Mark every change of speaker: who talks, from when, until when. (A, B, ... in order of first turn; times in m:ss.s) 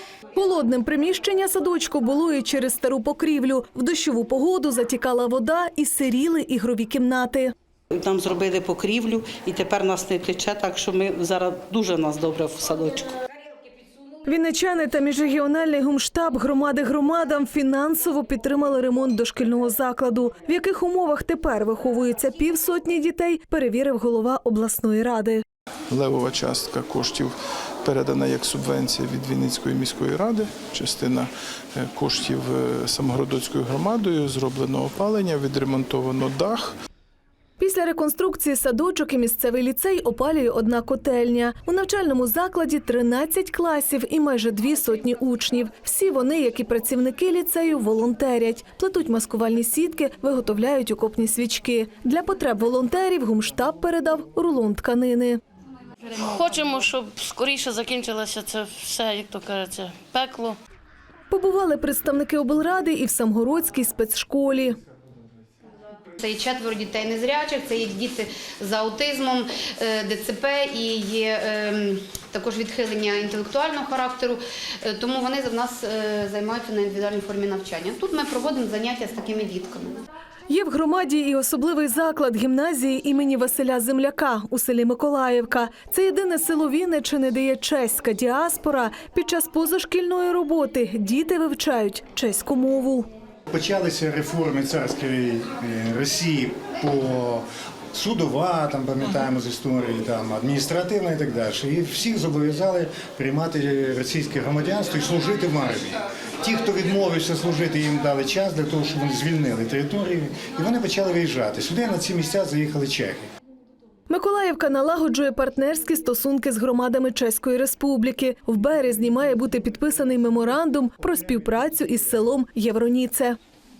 0:00.3-0:07.5 A
0:07.9-0:13.2 B
0:14.2-0:25.4 A
0:25.9-0:27.3 C
0:27.8-0:36.7 C
0:37.6-0:55.4 A
0:56.0-1:00.6 D
1:01.3-1:04.8 A
1:06.2-1:20.0 E
1:20.5-1:33.1 A
1:33.5-1:53.3 F
1:54.1-2:03.4 A